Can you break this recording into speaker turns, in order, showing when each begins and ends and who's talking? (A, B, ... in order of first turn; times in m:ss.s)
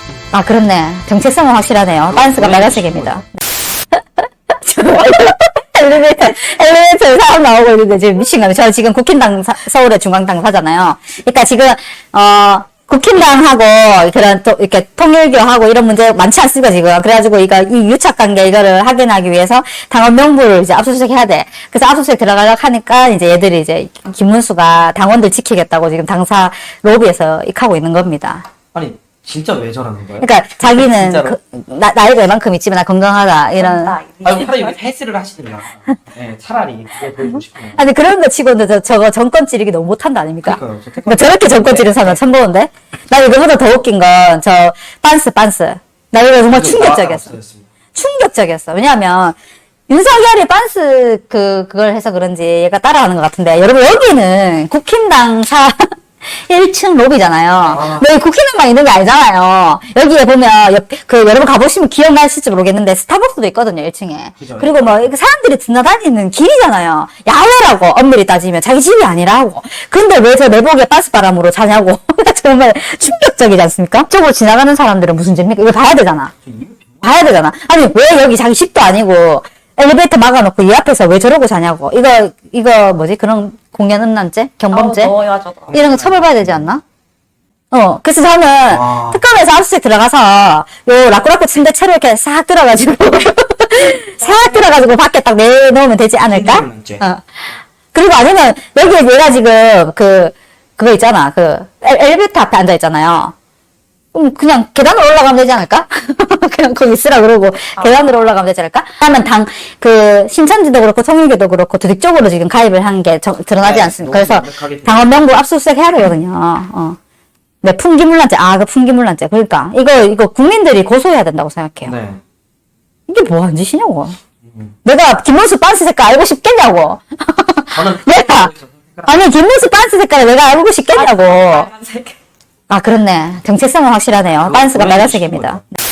0:00.3-0:03.3 A
0:02.1-0:03.2 B
0:03.9-0:28.4 A
0:28.7-0:31.4 B
0:30.2-0:34.0 A
0:33.6-0:34.8 C
0:34.2-0:37.8 B
0:37.7-0:47.4 A
0:40.4-0:42.2 B
0:46.5-0:47.7 B
0:47.9-0:49.4 A
0:49.9-1:16.3 A
0:57.7-0:58.1 B
1:04.4-1:05.1 B
1:16.4-1:17.0 B
1:17.0-1:25.2 A
1:24.7-1:25.8 C
1:25.7-1:26.7 B
1:25.7-1:26.8 A
1:27.7-1:43.3 A
1:28.7-1:29.2 B
1:34.2-1:34.7 C
1:36.3-1:37.0 B
1:44.1-1:57.0 A
1:47.8-1:48.1 C
1:53.6-1:55.2 B
1:57.6-2:02.0 A
2:01.8-2:02.2 B
2:03.1-2:04.2 A
2:04.4-2:04.7 B
2:04.8-2:08.5 A
2:07.7-2:09.2 B
2:09.1-2:11.7 A
2:10.9-2:12.2 C
2:12.7-2:15.7 A
2:14.4-2:15.6 B